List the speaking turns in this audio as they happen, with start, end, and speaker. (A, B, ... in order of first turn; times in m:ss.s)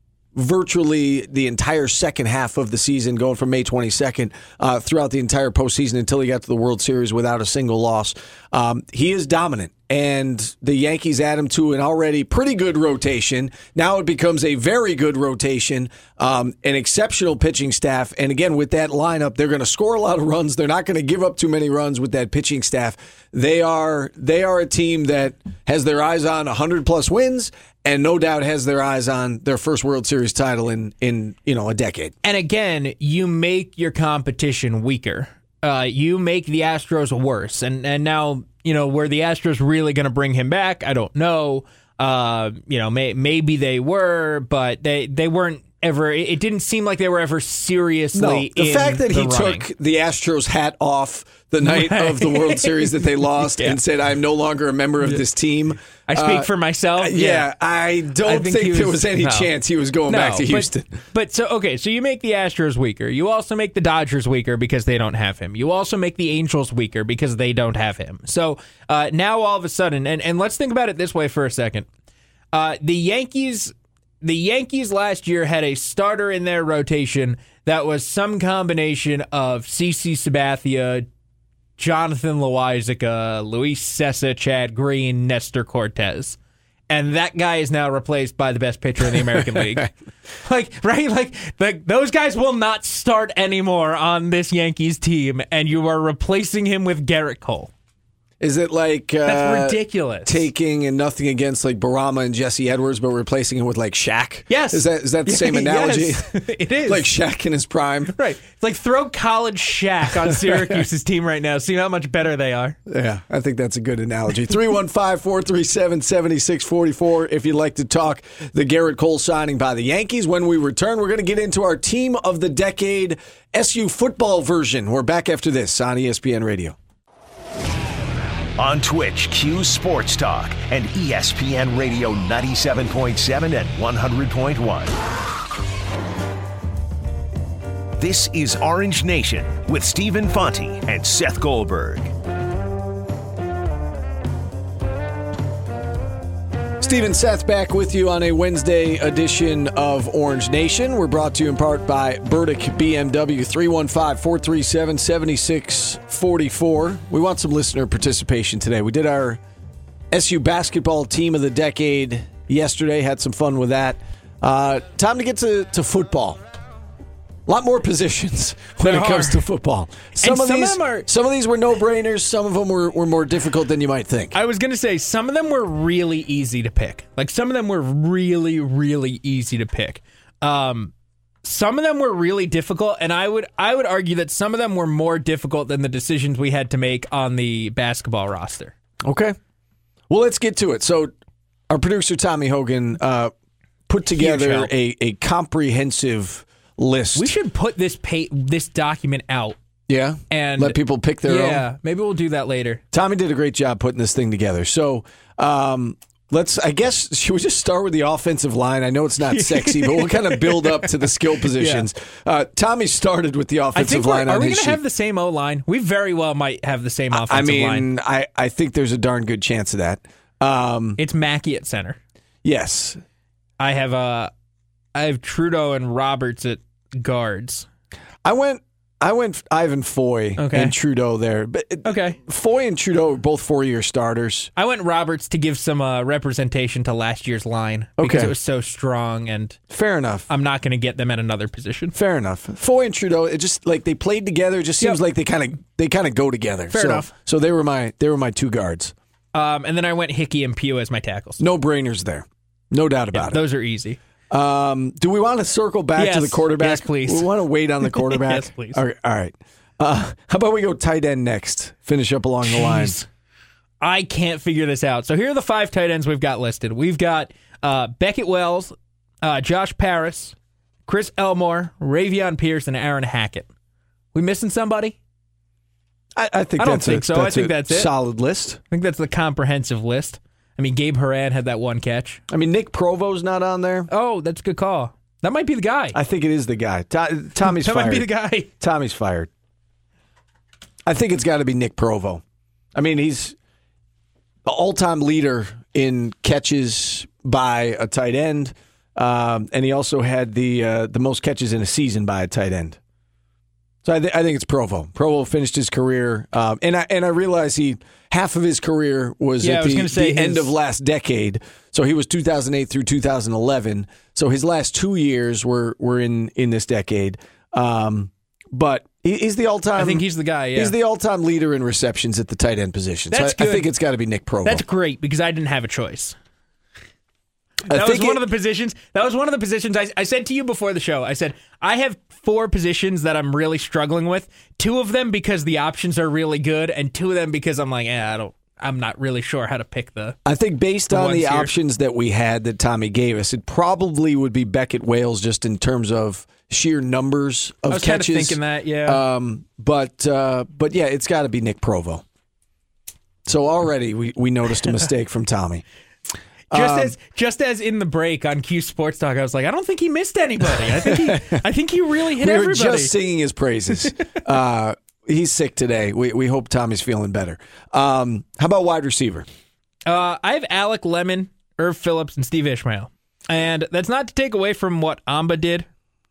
0:00.3-0:32.1 A
0:32.2-0:49.7 B
0:48.1-1:01.0 A
0:51.6-0:53.8 B
0:56.1-0:57.5 B
0:58.2-0:59.5 B
1:00.1-1:11.9 B
1:12.5-1:21.0 B
1:21.8-1:26.4 B
1:26.9-1:37.7 B
1:29.5-1:29.8 A
1:38.4-1:46.3 A
1:39.2-1:40.4 B
1:44.5-1:47.1 B
1:46.8-1:48.1 A
1:48.1-1:52.8 B
1:50.3-1:50.8 A
1:52.8-2:06.8 A
2:08.6-2:15.0 C
2:18.0-2:22.1 C
2:26.8-2:39.4 A
2:40.1-2:46.4 A
2:47.5-2:54.3 A
2:48.8-2:49.4 B
2:50.2-2:51.1 B
2:54.3-3:00.9 B
3:01.4-3:08.7 B
3:09.0-3:09.4 A
3:10.1-3:11.1 A
3:11.7-3:13.3 A
3:13.9-3:17.3 A
3:14.1-3:14.7 B
3:17.2-3:19.6 B
3:19.9-3:21.6 A
3:20.3-3:22.8 B
3:22.9-3:34.8 A
3:29.3-3:31.8 B
3:33.7-3:37.9 B
3:37.1-3:41.0 A
3:41.0-3:42.0 B
3:42.4-3:43.0 A
3:43.6-3:44.3 B
3:44.9-3:47.7 B
3:48.2-3:54.5 A
3:50.4-3:50.7 B
3:51.8-3:52.2 B
3:54.6-3:59.6 B
3:58.0-3:58.3 A
3:59.7-4:00.3 A
4:00.3-4:01.9 B
4:01.9-4:08.9 A
4:06.7-4:07.1 B
4:09.3-4:11.4 B
4:11.4-4:13.4 A
4:13.1-4:14.0 B
4:14.3-4:23.0 A
4:16.0-4:17.3 B
4:17.8-4:18.8 B
4:22.4-4:23.1 B
4:23.8-4:33.5 B
4:34.1-4:35.0 B
4:36.2-4:38.6 A
4:36.6-4:37.9 B
4:38.7-4:42.2 B
4:42.3-4:43.9 A
4:43.9-4:46.0 B
4:45.9-4:49.3 A
4:47.4-4:48.5 B
4:50.8-4:52.2 A
4:52.7-4:53.4 A
4:54.4-5:02.8 A
5:03.8-5:24.6 A
5:09.4-5:10.5 B
5:19.8-5:20.7 B
5:23.1-5:23.7 B
5:24.4-5:26.2 B
5:27.7-5:28.2 A
5:27.7-5:40.2 B
5:40.2-5:52.0 A
5:40.9-5:41.5 B
5:47.7-5:49.0 B
5:53.2-5:55.6 A
5:56.5-5:57.0 A
5:56.5-6:02.9 B
6:00.8-6:01.3 A
6:02.2-6:09.2 A
6:09.8-6:15.7 B